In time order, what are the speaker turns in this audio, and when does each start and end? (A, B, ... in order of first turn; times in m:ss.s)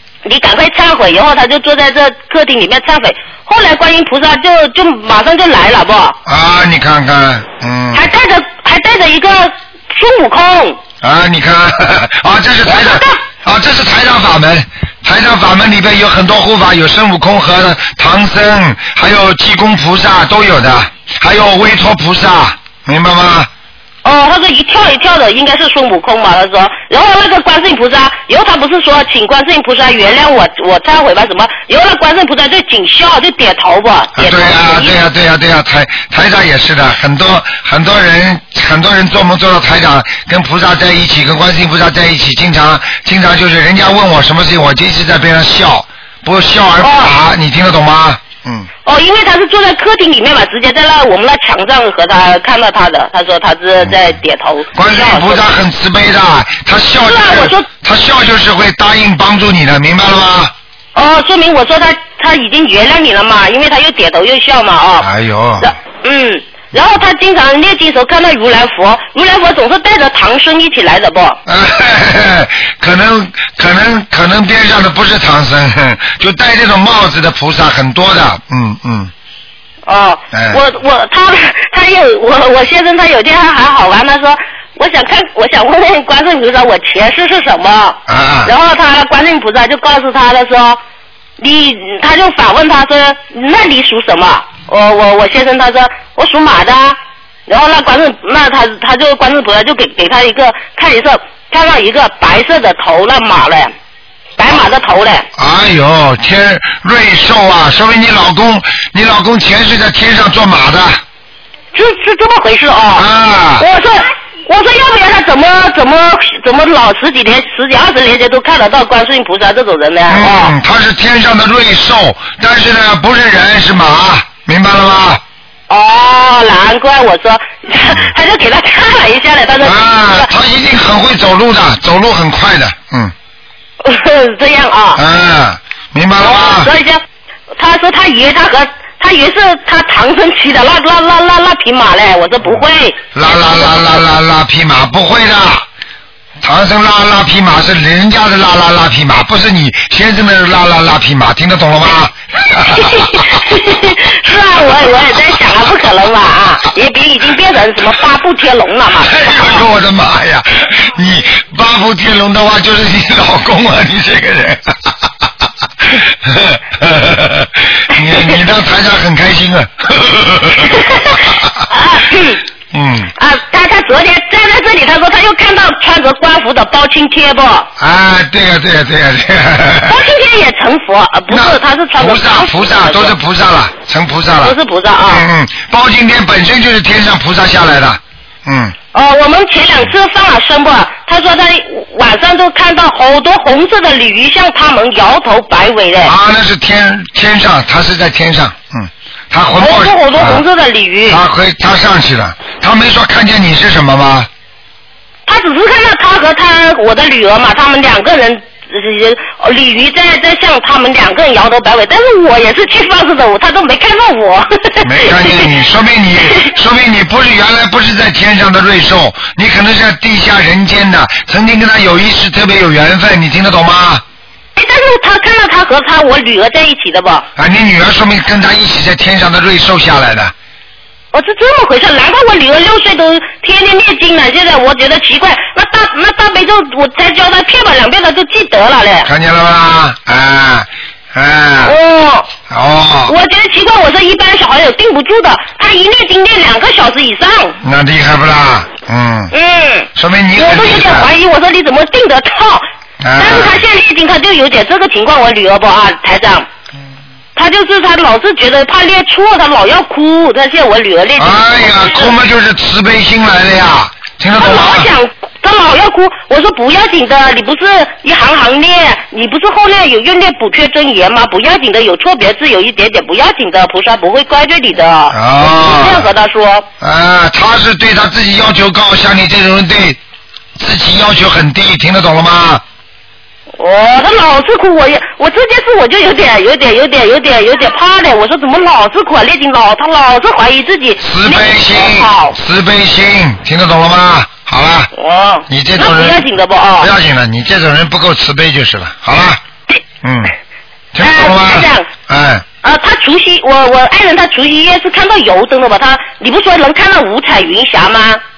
0:00.2-0:06.2 A
0:06.2-0:08.0 B
0:07.9-0:10.8 A
0:11.0-0:23.5 B
0:12.6-0:13.2 A
0:24.0-0:35.0 A
0:34.2-0:48.7 B
0:46.8-0:47.2 A
0:48.8-0:55.4 A
0:54.7-1:00.5 B
0:57.0-0:57.7 A
1:00.9-1:05.1 A
1:05.0-1:05.7 B
1:05.6-1:11.4 A
1:11.4-1:19.1 B
1:19.9-1:30.8 A
1:20.3-1:20.6 B
1:28.1-1:28.5 B
1:31.4-1:43.7 A
1:44.4-1:45.2 A
1:45.3-1:51.0 B
1:51.7-1:53.0 A
1:52.9-1:53.6 B
1:53.6-2:00.5 A
2:00.1-2:05.2 B
2:05.7-2:10.3 A
2:09.6-2:13.1 B
2:13.8-2:15.0 A
2:14.9-2:16.7 B
2:16.2-2:17.0 A
2:17.6-2:24.0 A
2:23.1-2:25.6 B
2:26.4-2:33.4 B
2:32.6-2:39.6 A
2:39.0-2:45.1 B
2:45.8-2:51.6 B
2:50.7-2:52.4 A
2:52.7-2:53.1 B
2:53.2-2:57.7 A
2:57.8-3:00.0 B
2:59.9-3:03.2 A
3:01.3-3:08.7 B
3:04.4-3:05.2 A
3:08.9-3:16.1 A
3:16.0-3:20.4 B
3:19.6-3:21.2 A
3:21.1-3:24.3 B
3:25.3-3:35.5 A
3:34.8-3:44.0 B
3:44.6-3:47.3 A
3:47.4-3:50.3 B
3:51.1-3:59.1 A
3:59.0-4:01.8 B
4:01.6-4:02.3 A
4:02.5-4:03.1 B
4:03.0-4:07.6 A
4:07.6-4:09.3 B
4:09.3-4:12.6 A
4:09.9-4:11.1 B
4:13.0-4:13.6 B
4:13.2-4:16.5 A
4:17.3-4:22.1 A
4:21.2-4:24.9 B
4:24.4-4:36.7 A
4:35.1-4:36.1 B
4:36.8-4:40.0 B
4:40.6-4:42.6 B
4:43.6-4:52.4 A
4:51.0-4:54.9 B
4:54.9-4:56.9 A
4:55.5-4:56.2 B
4:56.8-4:59.4 B
5:00.0-5:00.3 B
5:00.9-5:02.4 B
5:01.0-5:01.9 A
5:02.6-5:08.2 A